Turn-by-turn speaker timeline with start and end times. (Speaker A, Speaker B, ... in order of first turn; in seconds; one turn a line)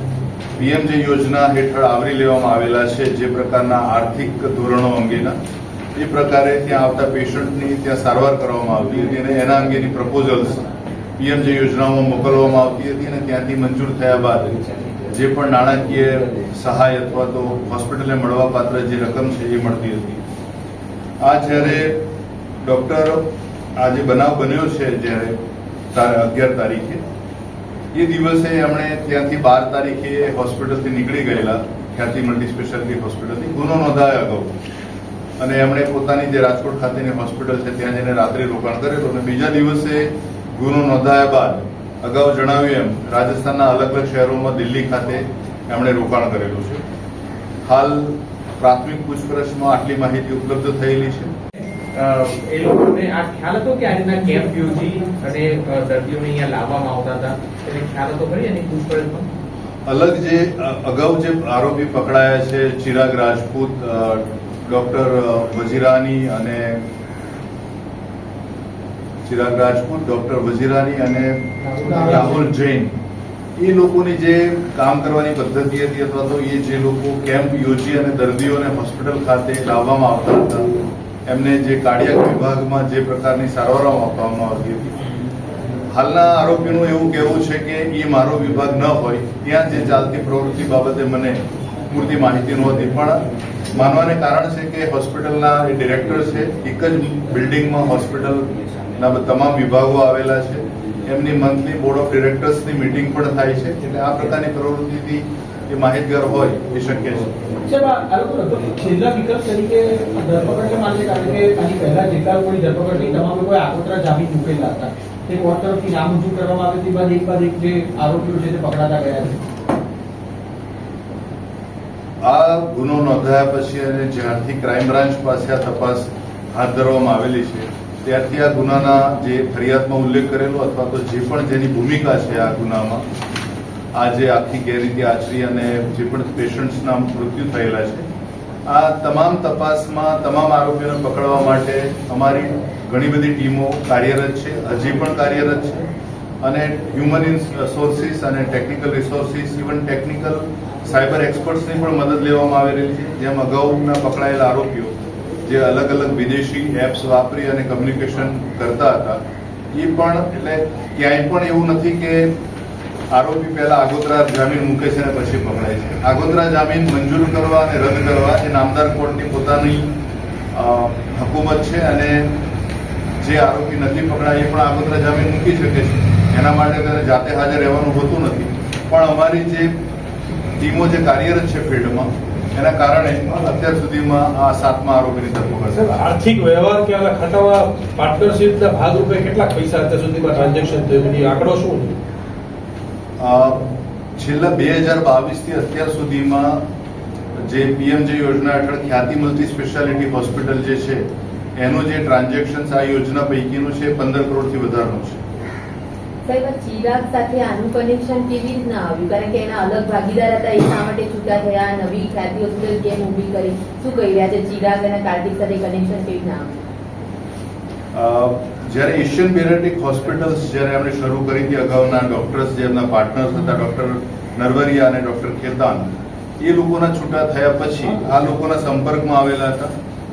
Speaker A: 0.5-5.3
Speaker A: 6.0-10.7
Speaker A: 11.2-20.2
Speaker A: 21.2-22.0
Speaker A: 22.6-23.2
Speaker A: 23.8-25.4
Speaker A: 25.9-27.0
Speaker A: 27.9-34.5
Speaker A: 35.4-46.8
Speaker A: 47.6-51.3
Speaker B: 51.9-59.3
Speaker A: 59.9-66.8
Speaker A: 69.2-71.3
Speaker C: 71.8-72.4
Speaker A: 71.9-72.9
Speaker A: 73.6-80.7
Speaker A: 81.3-84.9
Speaker A: 85.9-107.3
Speaker C: 107.6-119.4
Speaker A: 122.2-133.0
Speaker A: 133.9-138.1
Speaker A: 138.7-145.9
Speaker A: 146.4-154.9
Speaker A: 155.4-159.2
Speaker A: 159.7-162.3
Speaker A: 163.1-169.9
Speaker A: 170.5-172.3
Speaker A: 173.2-179.7
Speaker A: 180.6-185.9
Speaker D: 185.7-191.9
Speaker A: 193.2-193.7
Speaker A: 194.2-196.6
Speaker A: 197.4-201.0
Speaker A: 201.6-205.2
Speaker E: 206.2-216.5
Speaker A: 217.9-229.7